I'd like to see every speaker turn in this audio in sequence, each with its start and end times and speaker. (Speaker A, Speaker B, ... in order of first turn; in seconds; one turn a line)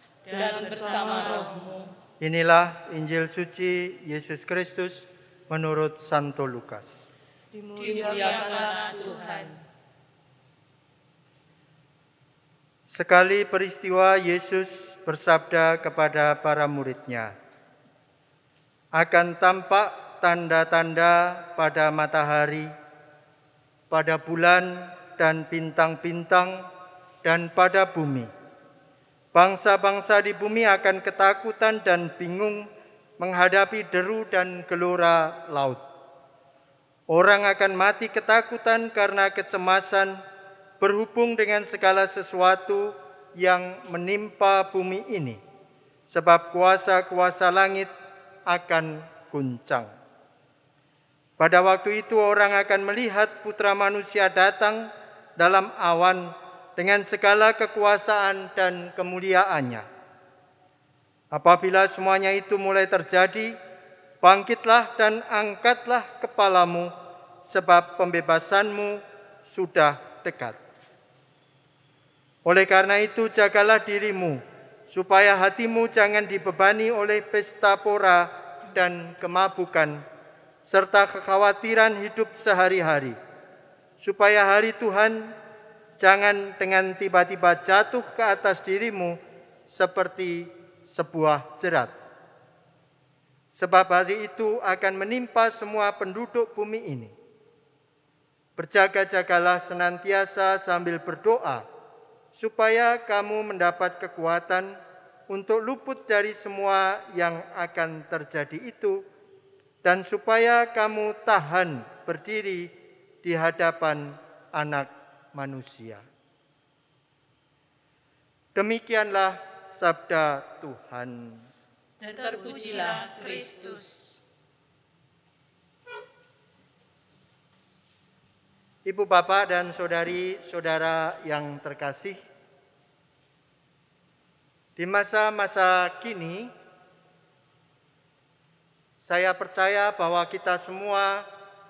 Speaker A: 0.3-1.9
Speaker B: 2.2-7.0
Speaker A: 7.6-9.6
Speaker B: 12.9-17.3
Speaker B: 19.0-22.7
Speaker B: 23.9-26.6
Speaker B: 27.2-28.3
Speaker B: 29.3-32.7
Speaker B: 33.2-35.8
Speaker B: 37.1-40.2
Speaker B: 40.8-45.4
Speaker B: 46.1-47.9
Speaker B: 48.5-49.9
Speaker B: 51.4-59.9
Speaker B: 61.3-63.5
Speaker B: 64.2-66.9
Speaker B: 67.4-70.6
Speaker B: 72.5-80.0
Speaker B: 80.7-83.2
Speaker B: 84.0-85.3
Speaker B: 86.0-89.2
Speaker B: 89.7-91.9
Speaker B: 93.5-97.1
Speaker B: 98.6-101.7
Speaker B: 102.3-104.8
Speaker B: 105.3-109.0
Speaker B: 109.8-112.7
Speaker B: 113.2-116.0
Speaker B: 118.5-121.5
Speaker A: 122.0-124.1
Speaker B: 128.8-132.2
Speaker B: 134.8-136.5
Speaker B: 139.0-141.3